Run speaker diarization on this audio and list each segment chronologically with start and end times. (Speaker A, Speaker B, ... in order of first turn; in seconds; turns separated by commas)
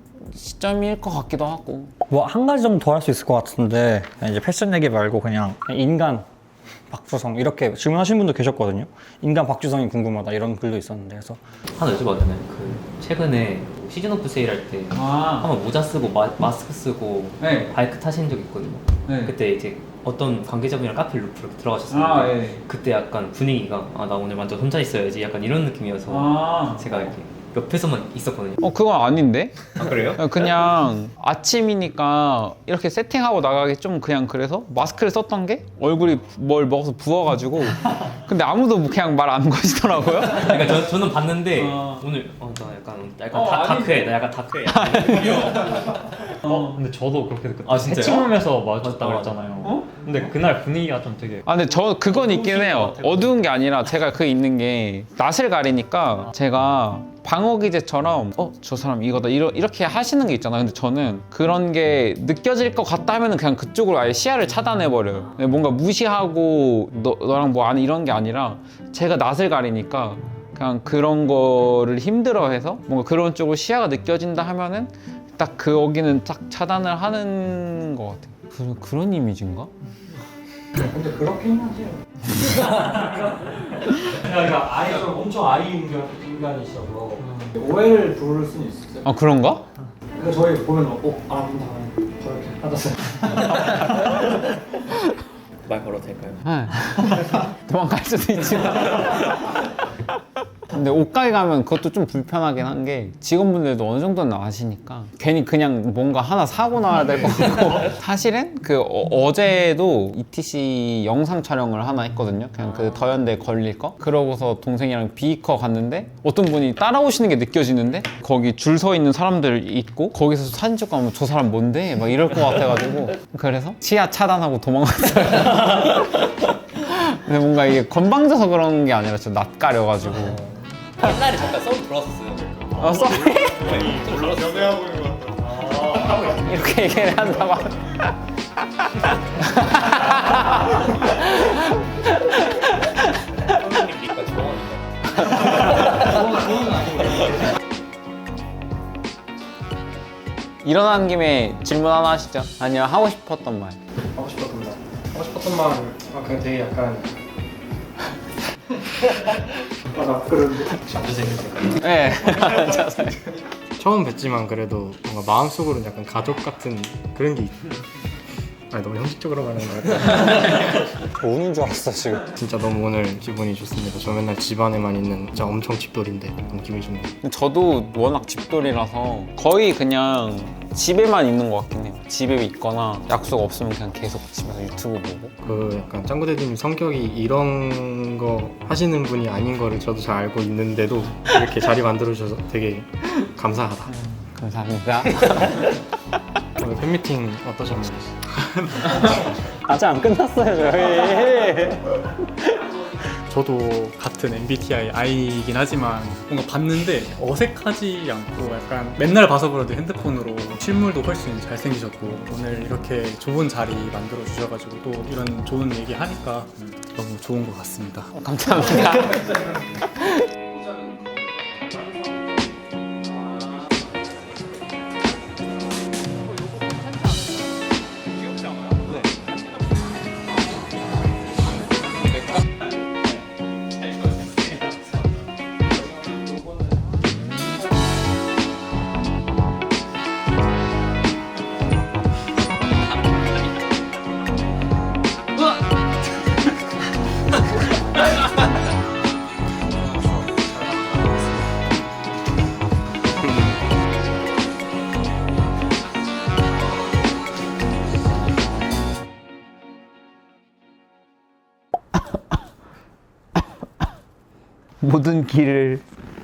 Speaker A: 0.3-1.9, Speaker B: 2.1-6.3, Speaker B: 6.9-11.4, Speaker C: 11.8-28.6, Speaker A: 15.0-15.4, Speaker A: 17.4-17.7, Speaker A: 21.9-22.6, Speaker A: 26.1-26.8, Speaker A: 28.6-41.0, Speaker C: 29.8-30.2, Speaker C: 40.3-46.2, Speaker A: 41.6-41.9, Speaker A: 43.3-44.1, Speaker A: 44.7-45.7, Speaker A: 46.5-46.7, Speaker D: 46.5-51.5, Speaker C: 47.6-49.5, Speaker A: 51.5-79.7, Speaker C: 52.0-53.4, Speaker B: 80.8-89.1, Speaker A: 89.0-89.7, Speaker B: 90.1-93.7, Speaker C: 93.5-94.1, Speaker C: 95.7-96.4, Speaker A: 96.5-99.4, Speaker A: 100.7-130.5, Speaker C: 131.0-132.9, Speaker A: 132.8-133.9, Speaker C: 133.5-134.9, Speaker B: 134.7-135.5, Speaker A: 135.8-138.1, Speaker A: 139.3-143.8, Speaker C: 143.5-146.3, Speaker A: 145.3-145.7, Speaker E: 146.0-147.2, Speaker A: 150.6-153.8, Speaker E: 154.2-157.2, Speaker E: 159.9-161.2, Speaker A: 161.7-163.2, Speaker E: 163.8-167.6, Speaker E: 168.7-170.8, Speaker B: 171.1-172.3, Speaker E: 172.3-177.2, Speaker A: 177.2-185.4, Speaker E: 185.4-193.9, Speaker A: 194.0-195.7, Speaker E: 196.6-199.1, Speaker B: 199.7-202.1, Speaker F: 203.3-218.1, Speaker A: 218.2-220.3, Speaker A: 264.8-265.8